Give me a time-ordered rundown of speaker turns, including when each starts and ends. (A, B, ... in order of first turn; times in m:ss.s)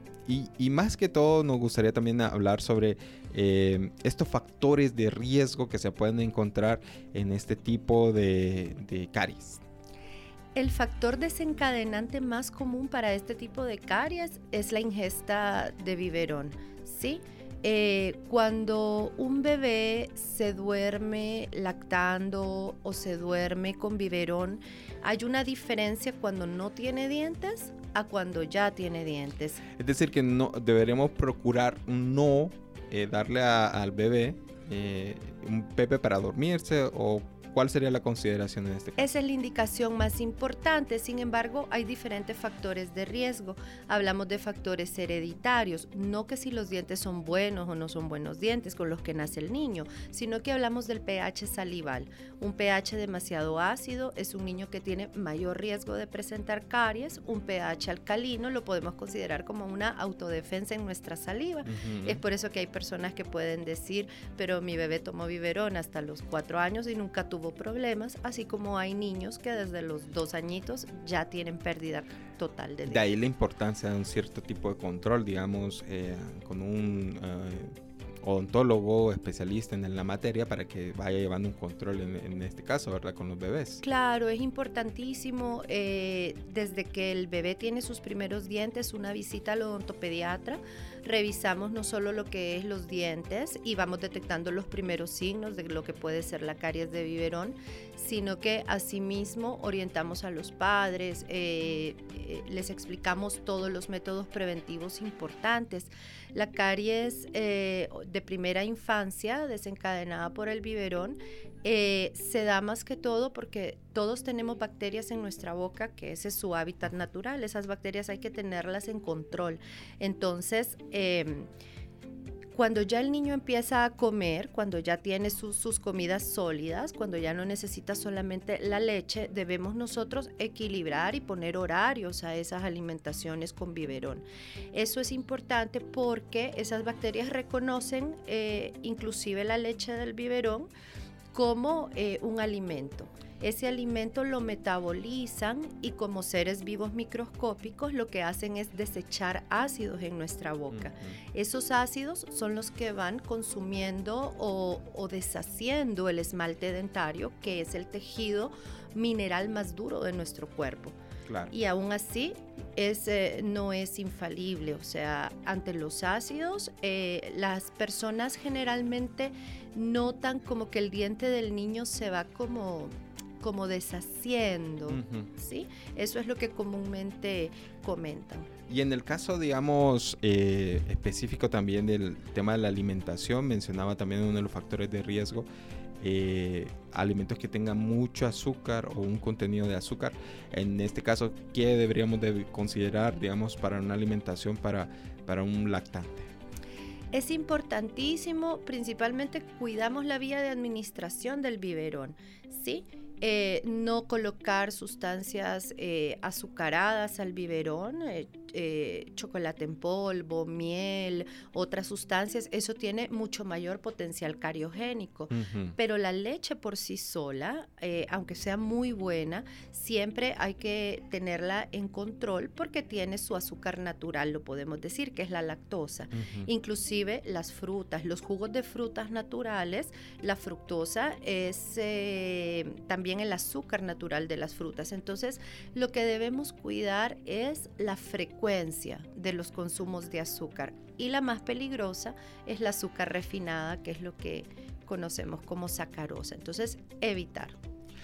0:00.3-0:09.6 A
0:10.6-0:29.6 B
0:29.8-0:39.1 A
0:39.0-1:13.0 B
1:01.7-1:02.2 A
1:12.9-1:23.8 A
1:23.8-2:01.5 B
2:02.6-2:20.7 B
2:21.3-2:41.0 B
2:30.7-2:31.2 A
2:41.3-2:41.5 A
2:41.5-2:58.5 B
2:54.9-2:55.3 A
2:58.7-3:05.5 A
3:06.0-3:16.3 A
3:17.1-4:07.6 B
3:35.3-3:35.8 A
3:46.1-3:46.5 A